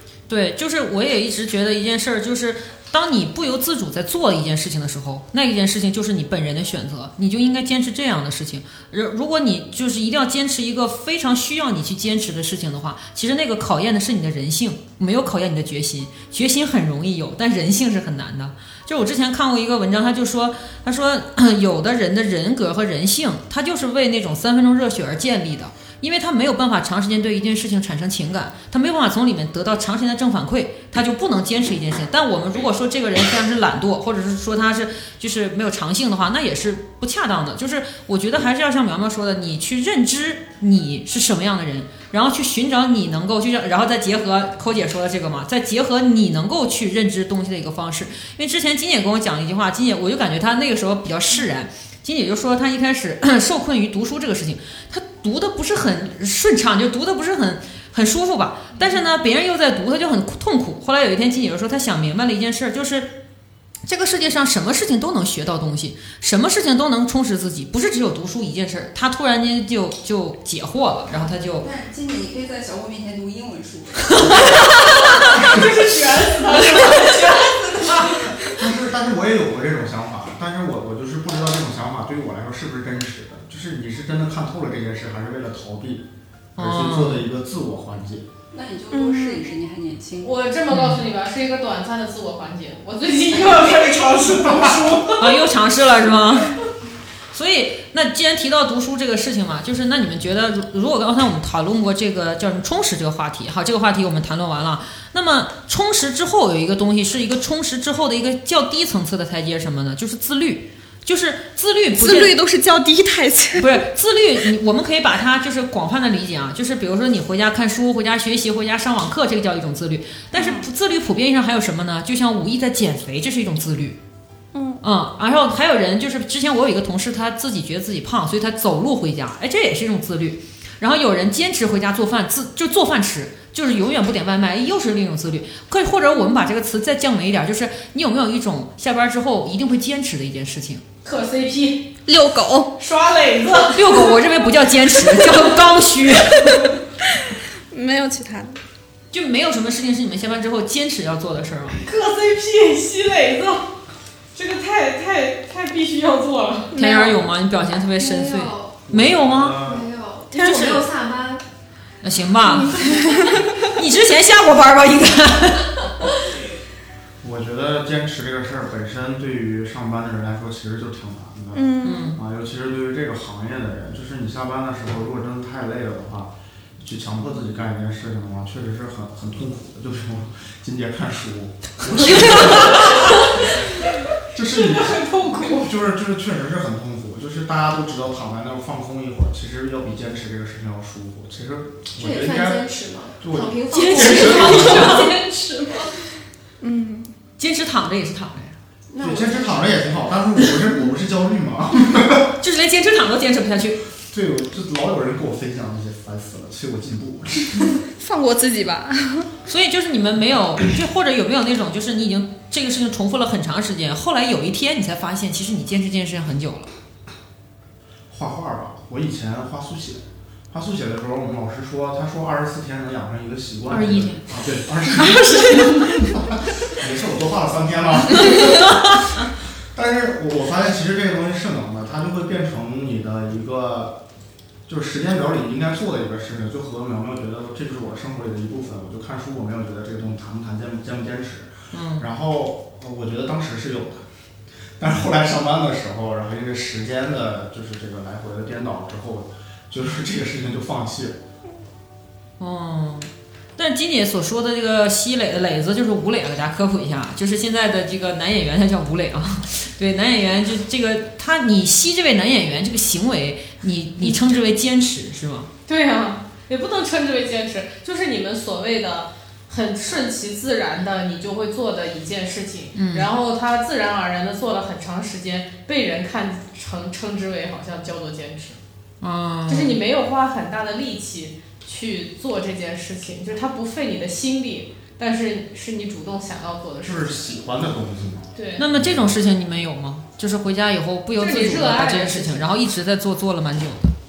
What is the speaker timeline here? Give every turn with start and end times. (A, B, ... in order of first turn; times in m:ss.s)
0:00.3-1:03.1 A
1:03.9-1:11.7 A
1:11.2-1:14.8 B
1:15.4-1:18.1 C
1:16.8-1:18.3 B
1:18.6-1:26.1 D
1:26.6-1:27.3 A
1:26.6-1:28.3 D
1:28.5-1:30.4 B
1:28.9-1:29.4 E
1:30.2-1:35.4 C
1:30.7-1:31.1 A
1:35.2-1:36.6 A
1:37.3-1:52.4 A
1:52.0-1:53.8 E
1:53.6-2:04.0 A
2:00.3-2:00.7 E
2:04.5-2:04.8 E
2:04.8-2:20.8 A
2:21.0-2:21.9 C
2:22.1-2:22.7 E
2:22.8-2:24.3 C
2:23.7-2:26.6 A
2:27.7-2:28.6 E
2:29.1-2:31.8 A
2:31.8-2:33.7 C
2:34.4-2:36.7 C
2:36.7-2:37.2 E
2:36.8-2:39.6 A
2:38.0-2:38.8 F
2:38.9-2:39.9 D
2:39.6-2:41.4 F
2:40.3-2:40.8 A
2:42.0-2:43.1 A
2:42.6-2:43.5 E
2:43.7-2:45.9 A
2:47.2-3:03.1 D
2:51.5-2:52.1 E
2:51.8-2:52.2 A
3:04.3-3:15.1 D
3:04.5-3:05.7 C
3:12.0-3:15.9 F
3:13.7-3:15.1 A
3:16.6-3:17.1 E
3:17.4-3:18.6 A
3:18.9-3:19.7 F
3:19.0-3:22.3 D
3:22.4-3:23.8 A
3:24.1-3:27.6 D
3:27.9-3:29.3 E
3:29.5-3:36.7 A
3:38.1-3:49.0 D
3:43.7-3:44.3 A
3:49.7-3:54.0 D
3:54.7-4:04.0 D
4:01.7-4:02.1 A
4:04.8-4:11.2 D
4:12.4-4:25.5 A
4:25.7-4:38.6 C
4:32.7-4:33.1 A
4:39.0-4:39.8 A
4:39.5-4:47.2 C
4:46.8-4:49.2 D
4:48.4-4:48.6 C
4:48.6-4:53.9 A
4:51.2-4:52.5 C